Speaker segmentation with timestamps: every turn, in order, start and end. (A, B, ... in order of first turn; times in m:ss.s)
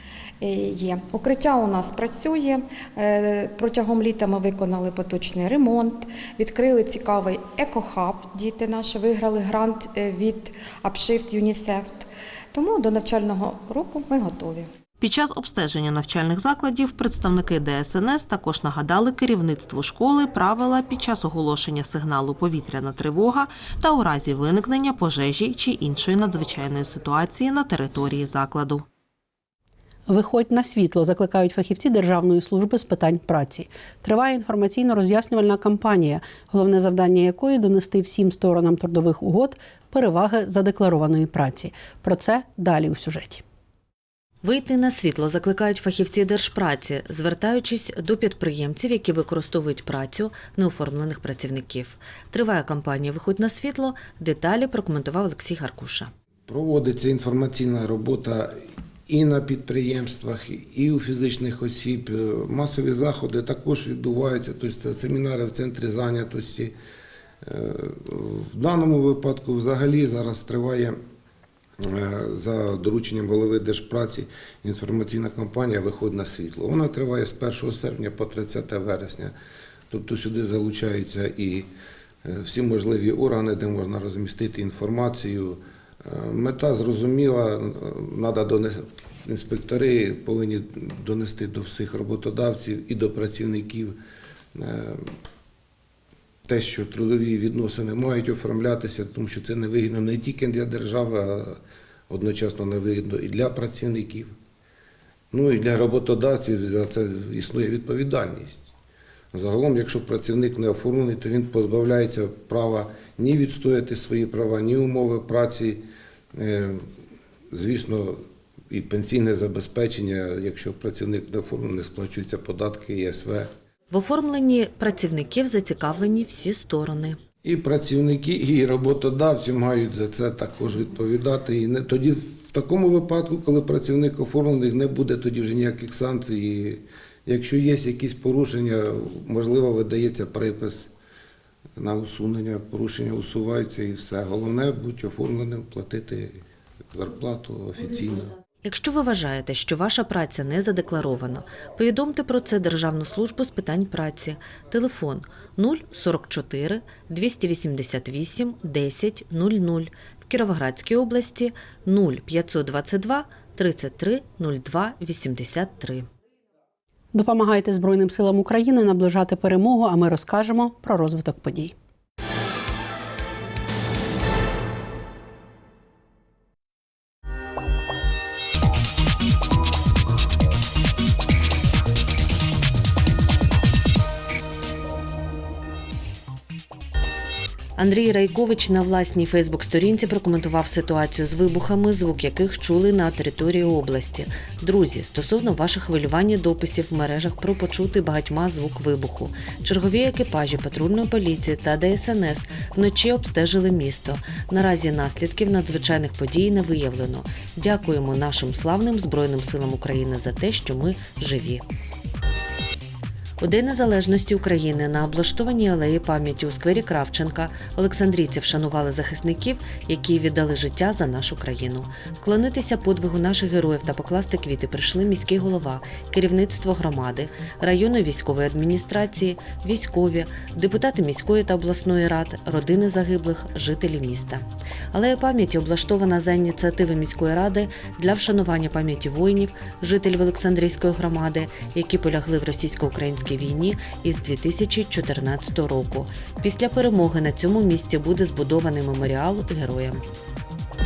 0:00.4-0:14.7 A
0:15.0-0:28.8 B
0:30.1-0:43.4 C
0:44.4-0:56.1 D
0:56.5-0:58.5 E
0:59.1-1:06.7 E
1:07.4-1:10.9 E
1:11.8-1:19.3 E
1:19.9-1:21.7 E
1:22.2-1:34.0 E
1:34.5-1:35.0 E
1:36.5-1:41.6 E
1:42.1-1:44.3 E
1:45.3-1:48.7 E
1:49.3-1:55.8 E
1:56.3-1:56.8 E
1:57.5-1:58.2 E
1:58.7-2:03.5 E
2:03.9-2:07.2 D
2:07.4-2:20.9 E
2:21.8-2:28.3 E
2:28.6-2:46.1 D
2:47.1-2:51.7 C
3:07.8-3:31.6 D
3:33.4-4:10.0 D